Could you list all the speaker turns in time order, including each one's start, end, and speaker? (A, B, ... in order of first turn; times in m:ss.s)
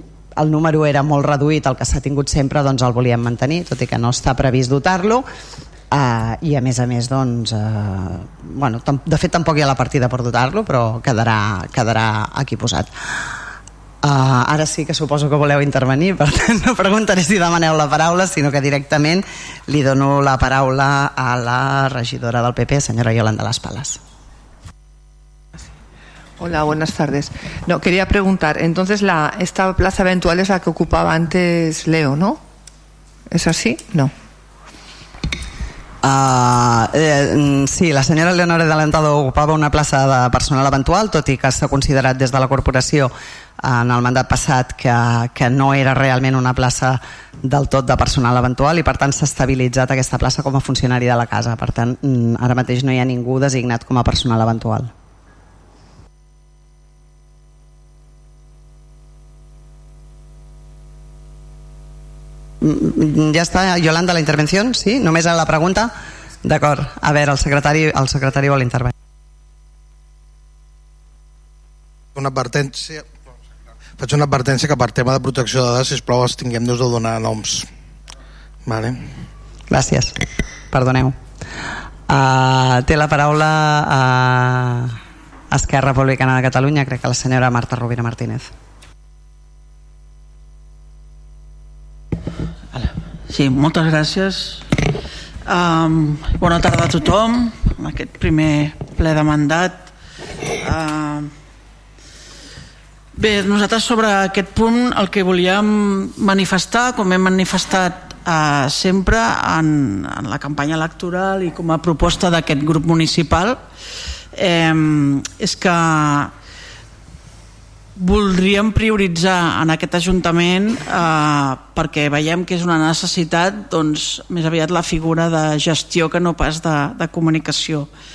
0:00.4-0:05.2 A
0:05.9-0:12.9 A
0:14.0-0:24.0 A
0:26.4-0:32.4 B
0:33.3-0:34.1 B
0:36.0-0:54.9 A
1:02.6-1:05.9 A
1:06.4-1:08.9 A
1:12.1-1:13.1 C
1:14.0-1:17.7 C
1:18.6-1:19.1 C
1:19.7-1:20.1 A
1:20.7-1:21.2 A
1:22.1-1:25.0 A
1:25.5-1:28.5 A
1:33.3-1:34.8 D
1:35.4-1:39.9 D
1:40.6-1:41.3 D
1:43.1-1:53.6 D
1:54.3-1:56.3 D
1:58.0-2:07.9 D